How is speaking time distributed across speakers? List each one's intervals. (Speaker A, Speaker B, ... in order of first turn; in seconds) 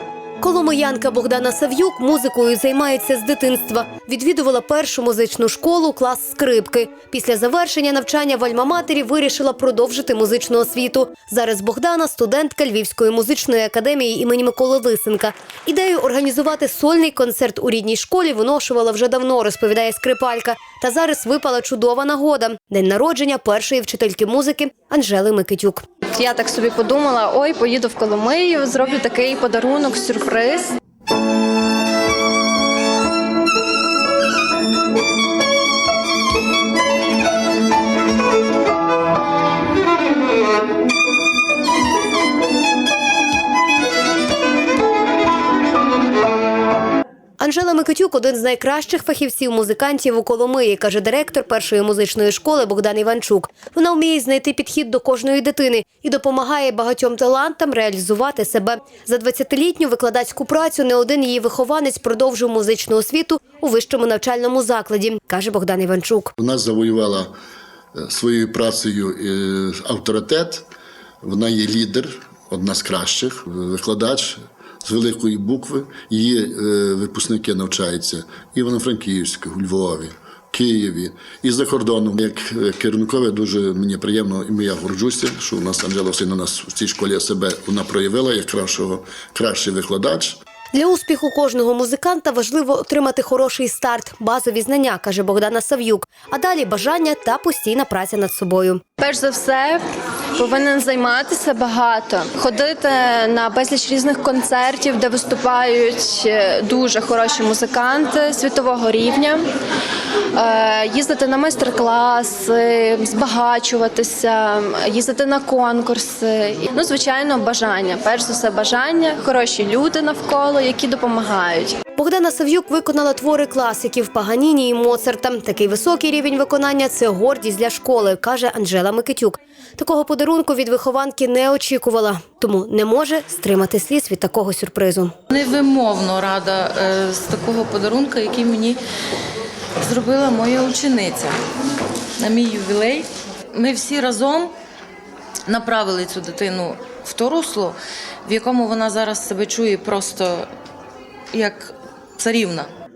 Speaker A: 0.4-25.8, 47.4-66.3, 90.7-98.8, 122.0-135.1
Speaker B: 26.1-30.7, 99.0-99.8, 100.3-109.4, 110.3-121.8
Speaker C: 66.4-67.3, 68.0-70.7, 71.2-90.4
Speaker D: 135.3-138.8, 139.8-141.4, 142.2-144.5, 145.5-150.5, 151.3-152.7